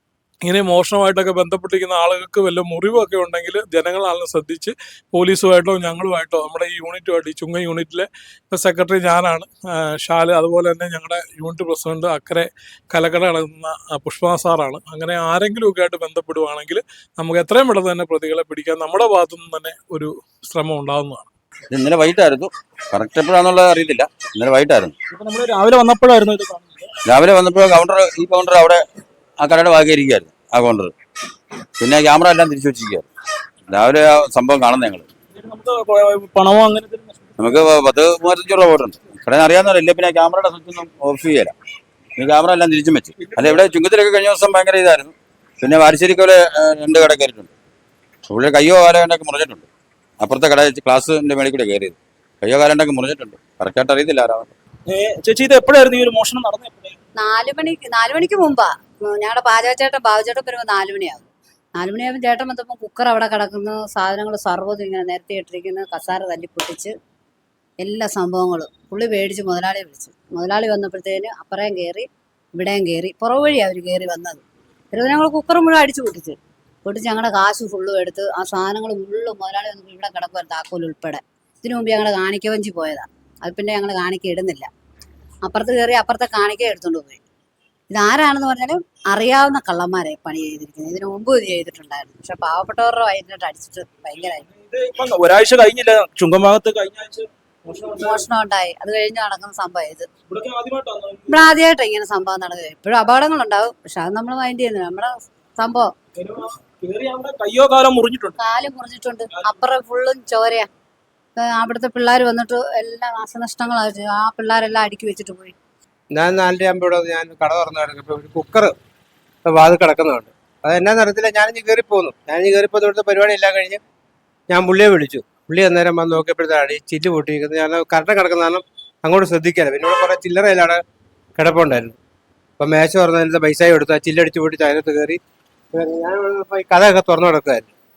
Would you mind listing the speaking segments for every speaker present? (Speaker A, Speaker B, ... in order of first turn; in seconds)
Speaker A: 0.4-21.3
Speaker B: 21.7-24.9, 27.1-28.8, 29.4-30.9, 31.8-33.0, 33.7-35.0, 37.4-41.5, 42.2-47.5, 48.3-49.6, 50.2-54.5
Speaker C: 25.1-26.9, 35.4-37.7, 43.2-43.7, 54.9-57.0, 94.5-98.2, 100.3-101.4, 106.2-108.4
Speaker D: 57.1-66.9, 67.8-84.7, 85.4-87.2, 87.9-94.4, 98.0-100.1, 101.3-105.9, 108.4-110.7, 111.4-115.5
Speaker E: 116.1-118.7, 119.4-123.8, 124.5-130.8, 131.4-132.0, 132.6-135.2, 135.7-137.7